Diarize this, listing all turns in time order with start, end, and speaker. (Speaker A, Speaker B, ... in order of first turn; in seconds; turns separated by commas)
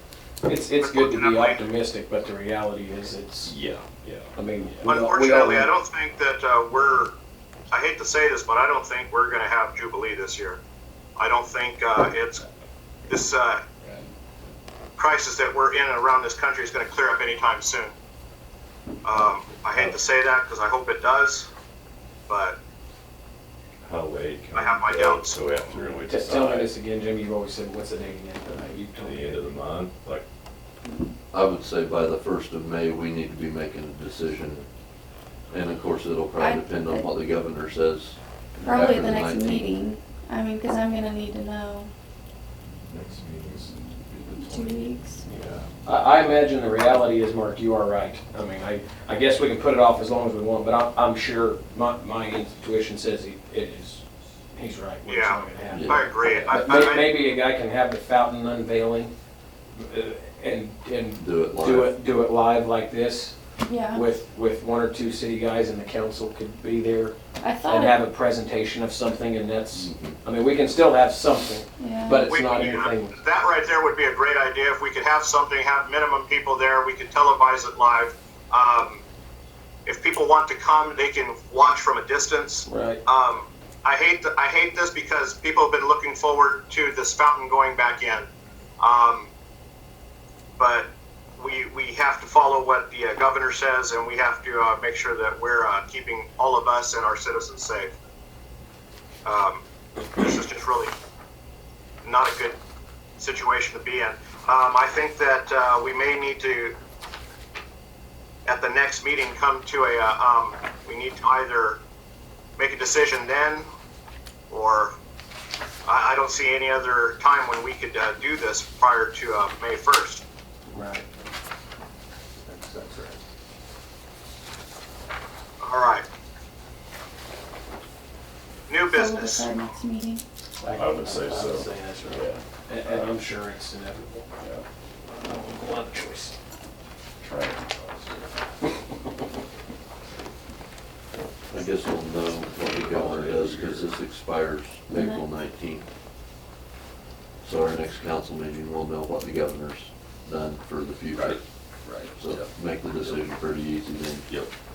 Speaker A: 0.4-3.5, Speaker B: 0.8-1.6, Speaker C: 3.4-4.3, Speaker A: 4.3-5.8, Speaker B: 4.8-7.1, Speaker B: 7.7-10.6, Speaker B: 11.2-12.4, Speaker B: 13.1-13.6, Speaker C: 13.8-14.5, Speaker B: 15.0-17.9, Speaker B: 19.0-21.5, Speaker B: 22.3-22.6, Speaker C: 23.8-26.7, Speaker B: 24.5-25.6, Speaker A: 26.0-29.5, Speaker C: 28.9-30.2, Speaker D: 30.8-31.1, Speaker E: 31.3-34.7, Speaker E: 35.5-39.7, Speaker D: 36.4-37.1, Speaker D: 38.6-41.9, Speaker C: 42.9-44.9, Speaker D: 44.4-45.2, Speaker A: 45.2-59.1, Speaker B: 55.0-57.1, Speaker E: 55.7-56.7, Speaker A: 59.7-63.4, Speaker E: 61.2-62.0, Speaker D: 63.6-64.0, Speaker A: 63.9-73.2, Speaker D: 67.4-68.0, Speaker C: 69.7-70.2, Speaker D: 71.8-72.3, Speaker B: 72.2-79.0, Speaker B: 79.8-88.3, Speaker A: 82.7-83.0, Speaker B: 88.8-89.3, Speaker B: 90.6-97.9, Speaker B: 99.2-99.6, Speaker B: 100.2-100.9, Speaker B: 102.0-102.6, Speaker B: 103.2-106.8, Speaker B: 108.5-111.8, Speaker B: 112.6-113.7, Speaker B: 114.5-114.9, Speaker B: 115.8-120.2, Speaker A: 120.7-121.0, Speaker A: 122.5-123.2, Speaker B: 125.6-126.0, Speaker B: 128.7-129.5, Speaker D: 128.9-130.2, Speaker A: 130.6-134.3, Speaker C: 130.7-133.0, Speaker C: 134.4-134.6, Speaker A: 135.1-136.3, Speaker C: 137.2-138.1, Speaker E: 141.5-145.8, Speaker C: 142.5-144.0, Speaker D: 144.9-145.2, Speaker E: 147.4-151.4, Speaker C: 151.1-153.2, Speaker E: 152.2-154.3